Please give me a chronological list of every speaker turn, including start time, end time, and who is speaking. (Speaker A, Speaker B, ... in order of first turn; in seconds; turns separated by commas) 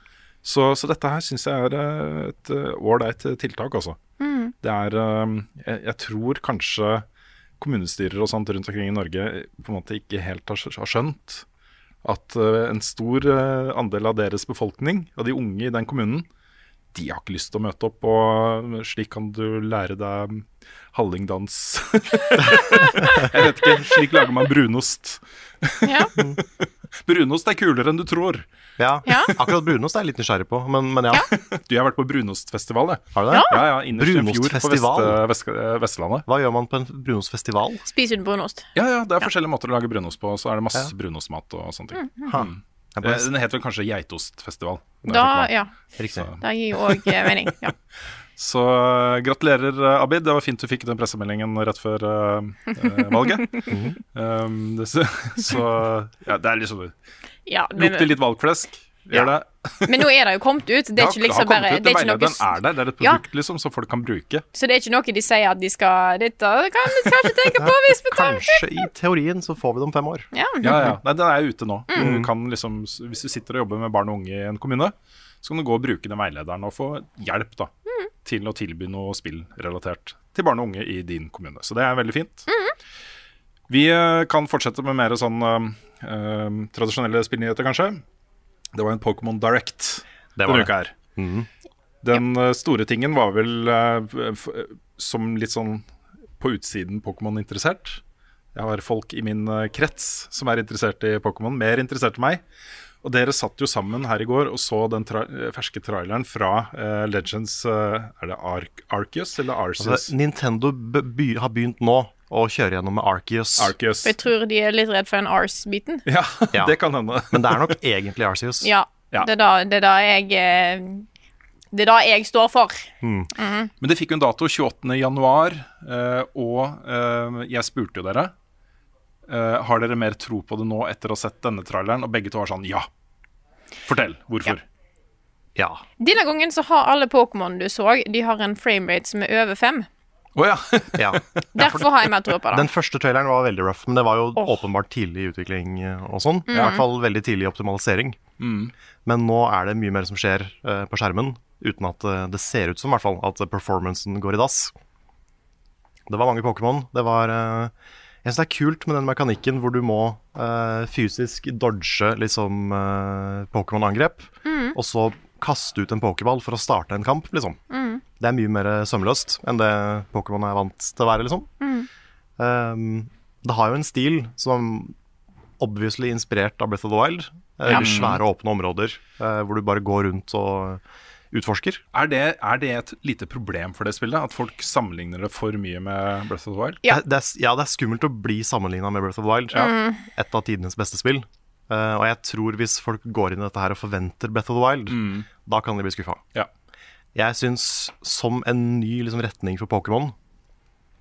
Speaker A: 0.4-4.0, Speaker B: 4.2-4.5, Speaker A: 4.6-7.0, Speaker A: 7.6-11.4, Speaker A: 12.0-16.2, Speaker A: 16.9-28.4, Speaker B: 25.8-26.1, Speaker C: 28.8-31.3, Speaker B: 29.1-29.3, Speaker A: 31.3-36.2, Speaker C: 33.1-35.2, Speaker C: 36.3-37.8, Speaker B: 37.9-38.7, Speaker A: 38.7-45.5, Speaker C: 42.2-43.3, Speaker B: 45.1-45.7, Speaker C: 46.0-46.3, Speaker A: 46.1-47.2, Speaker B: 46.4-47.7, Speaker A: 48.4-56.9, Speaker C: 53.7-54.0, Speaker B: 57.5-58.1, Speaker A: 57.7-59.9, Speaker B: 59.9-63.2, Speaker A: 61.0-64.4, Speaker B: 64.5-68.8, Speaker C: 67.6-70.3, Speaker B: 70.3-70.9, Speaker A: 70.6-77.7, Speaker C: 72.0-72.3, Speaker A: 78.2-82.5, Speaker B: 82.5-82.7, Speaker A: 83.7-88.0, Speaker A: 88.7-90.9, Speaker C: 90.3-91.5, Speaker A: 92.0-95.8, Speaker A: 96.4-98.0, Speaker A: 98.5-102.4, Speaker A: 103.0-110.1, Speaker C: 109.8-113.7, Speaker A: 113.6-114.2, Speaker B: 114.0-116.0, Speaker A: 116.0-117.8, Speaker C: 116.5-116.8, Speaker C: 117.3-118.7, Speaker B: 118.6-121.0, Speaker B: 121.7-123.7, Speaker C: 123.0-123.3, Speaker A: 123.8-128.3, Speaker A: 129.3-132.9, Speaker A: 133.8-134.6, Speaker C: 135.6-135.8, Speaker B: 136.0-139.9, Speaker A: 140.3-141.4, Speaker C: 140.9-141.9, Speaker B: 141.5-142.7, Speaker C: 142.5-148.2, Speaker B: 146.5-146.8, Speaker A: 146.5-146.8, Speaker A: 148.4-148.7, Speaker C: 149.0-154.7, Speaker C: 156.1-157.7, Speaker C: 158.2-167.6, Speaker B: 164.4-164.8, Speaker B: 167.7-168.0, Speaker C: 168.2-171.5, Speaker B: 171.6-171.9, Speaker C: 172.4-174.9, Speaker C: 175.6-180.8, Speaker A: 177.7-178.2, Speaker C: 181.3-181.8, Speaker A: 181.9-186.8, Speaker C: 186.8-196.2, Speaker B: 189.6-190.0, Speaker A: 194.9-195.3, Speaker C: 197.1-200.1